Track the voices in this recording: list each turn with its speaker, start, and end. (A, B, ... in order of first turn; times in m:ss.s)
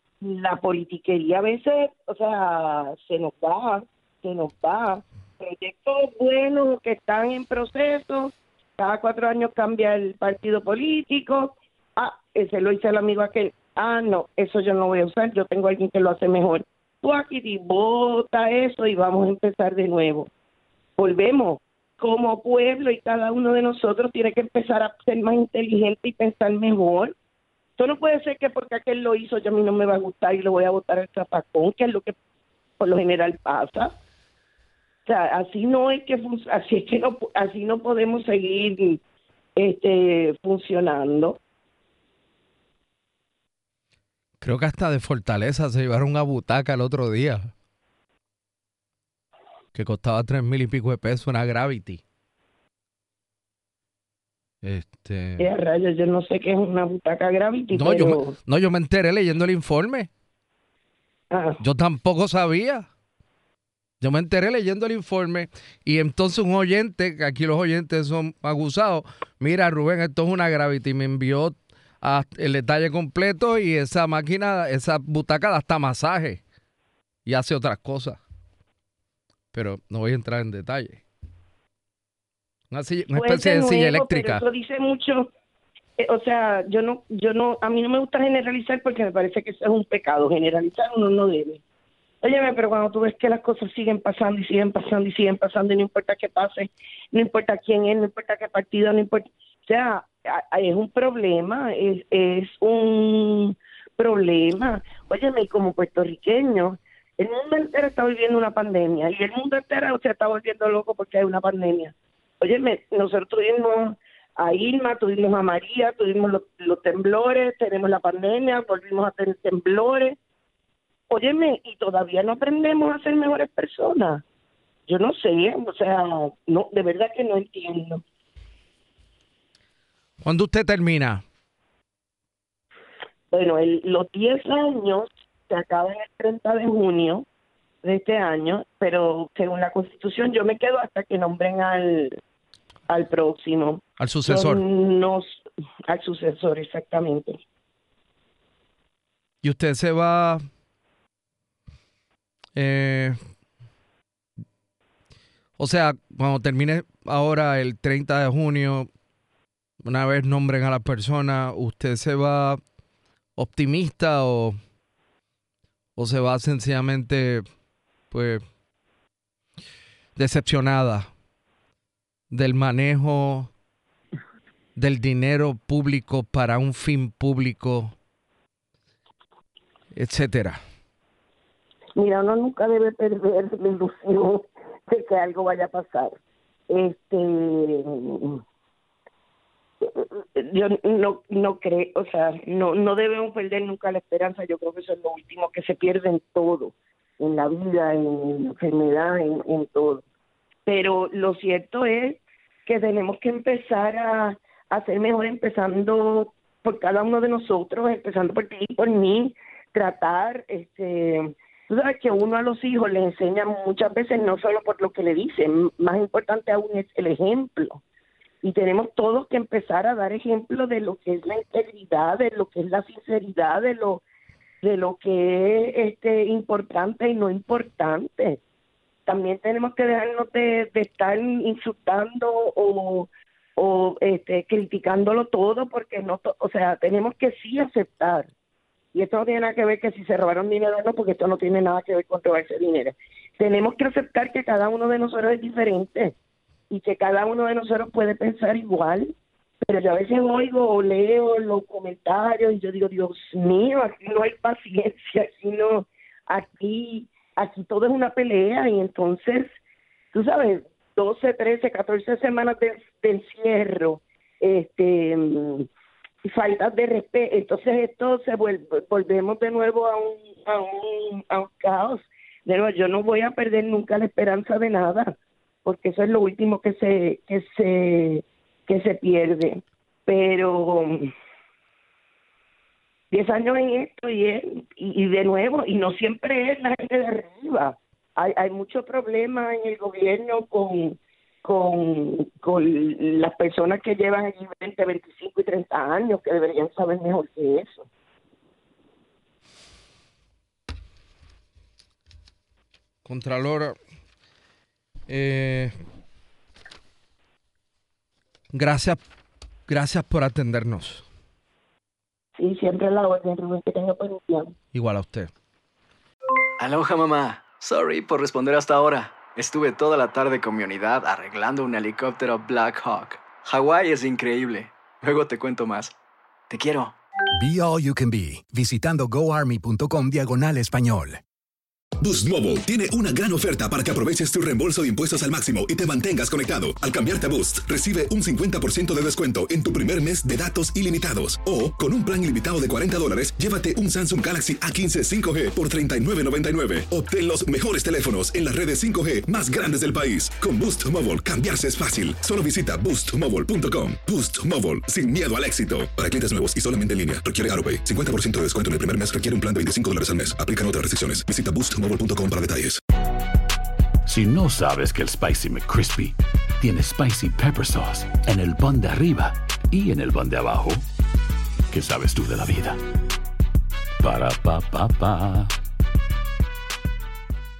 0:00.2-0:20.3 A
0:21.0-0:27.1 A
0:27.8-0:32.1 A
0:32.8-0:33.9 A
0:35.0-0:39.0 A
0:39.6-0:41.4 A
0:44.4-0:47.5 B
0:49.7-0:52.0 B
0:54.6-0:55.4 B
0:55.4-0:58.3 A
0:57.7-1:00.1 B
1:01.3-1:01.6 A
1:01.6-1:02.8 B
1:04.0-1:16.4 B
1:17.2-1:18.2 B
1:19.5-1:21.0 B
1:22.7-1:24.4 B
1:23.1-1:25.3 A
1:26.0-1:31.6 A
1:32.2-2:00.2 A
2:01.1-2:04.2 A
2:04.9-2:08.0 A
2:10.2-2:11.2 B
2:13.3-2:17.2 A
2:17.8-2:22.2 A
2:22.9-2:25.3 A
2:24.0-2:24.6 B
2:25.9-2:27.4 A
2:29.4-2:30.4 B
2:32.5-2:33.2 B
2:35.6-2:38.9 B
2:39.8-2:42.6 B
2:43.4-2:44.6 B
2:46.0-2:47.4 B
2:48.1-2:48.4 B
2:50.2-2:51.1 B
2:52.3-2:53.5 B
2:54.8-2:57.9 B
2:59.9-3:00.6 B
3:02.0-3:06.2 A
3:06.7-3:08.4 A
3:09.8-3:20.0 A
3:20.6-3:37.8 A
3:38.4-3:44.0 A
3:44.6-3:48.4 A
3:49.1-3:58.3 A
3:58.9-4:06.1 A
4:06.7-4:19.5 A
4:20.1-4:25.7 A
4:26.2-4:35.1 A
4:35.6-4:41.1 A
4:43.1-4:57.9 A
5:03.0-5:03.8 B
5:05.1-5:05.7 B
5:08.5-5:09.0 B
5:09.7-5:11.0 B
5:12.4-5:14.5 A
5:14.7-5:15.3 B
5:16.6-5:25.9 C
5:26.5-5:26.9 C
5:27.3-5:31.2 D
5:32.0-6:02.8 E
6:04.0-6:10.8 F
6:11.7-6:12.8 F
6:14.0-6:15.5 F